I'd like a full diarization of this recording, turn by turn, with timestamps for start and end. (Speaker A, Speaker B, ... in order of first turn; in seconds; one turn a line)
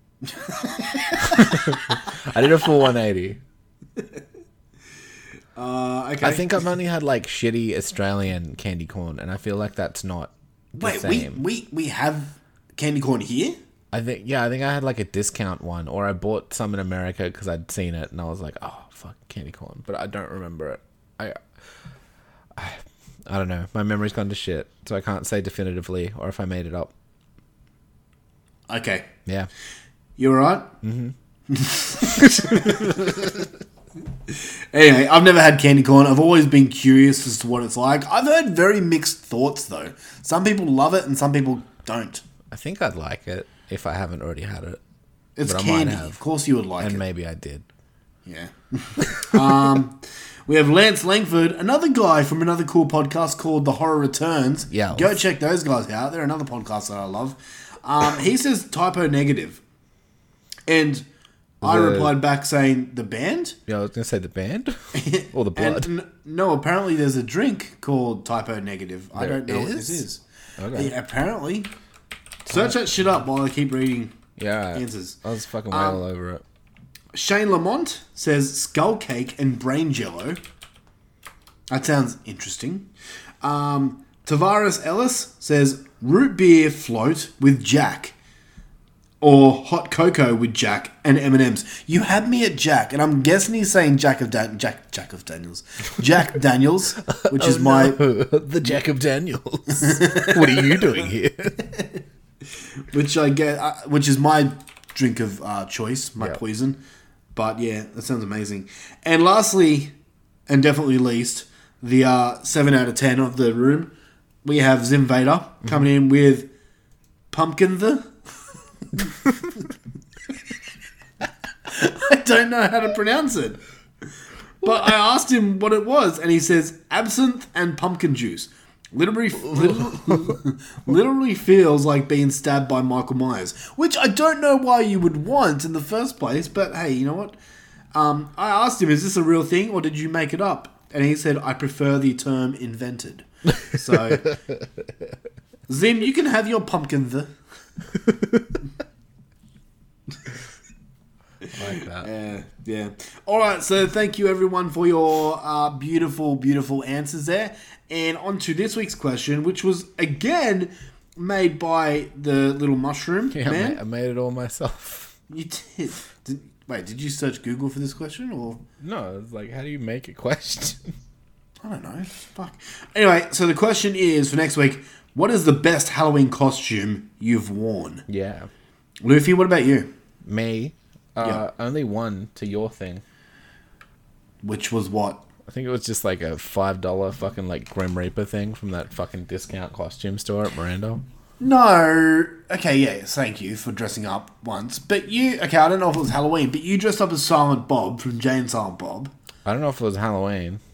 Speaker A: 0.3-1.7
Speaker B: 1.2-3.4
Speaker A: 5.6-6.7
Speaker B: 6.2-11.4
Speaker A: 10.8-13.6
Speaker B: 13.9-21.4
Speaker B: 22.6-26.9
Speaker A: 28.7-29.1
Speaker A: 30.2-30.7
Speaker B: 30.8-31.1
Speaker A: 31.5-33.3
Speaker B: 32.0-33.2
Speaker A: 34.3-42.2
Speaker B: 42.5-44.8
Speaker A: 45.4-47.0
Speaker B: 45.5-46.2
Speaker B: 46.8-47.7
Speaker A: 48.2-59.6
Speaker B: 54.7-55.2
Speaker A: 60.7-61.1
Speaker B: 61.6-62.2
Speaker A: 61.6-63.6
Speaker B: 63.7-65.9
Speaker A: 65.0-70.2
Speaker B: 69.2-70.0
Speaker B: 70.6-71.0
Speaker A: 70.7-71.7
Speaker A: 72.5-74.2
Speaker B: 74.4-76.4
Speaker A: 74.7-75.2
Speaker A: 75.7-76.0
Speaker A: 77.1-80.4
Speaker A: 81.7-82.9
Speaker A: 83.4-88.2
Speaker A: 89.2-98.0
Speaker B: 97.1-101.8
Speaker A: 99.7-100.8
Speaker A: 102.9-106.8
Speaker A: 107.3-109.9
Speaker A: 110.5-113.9
Speaker A: 114.4-116.5
Speaker A: 117.3-118.1
Speaker A: 121.7-123.6
Speaker A: 124.6-137.4
Speaker B: 129.6-130.3
Speaker A: 137.9-144.4
Speaker A: 145.7-147.3
Speaker B: 151.5-152.1
Speaker A: 151.7-163.8
Speaker B: 163.3-165.2
Speaker A: 165.3-168.6
Speaker B: 168.8-170.8
Speaker A: 171.6-178.1
Speaker B: 178.1-178.5
Speaker A: 179.0-179.9
Speaker B: 180.2-183.0
Speaker A: 184.4-185.2
Speaker B: 185.5-191.0
Speaker A: 191.4-199.1
Speaker B: 199.4-200.6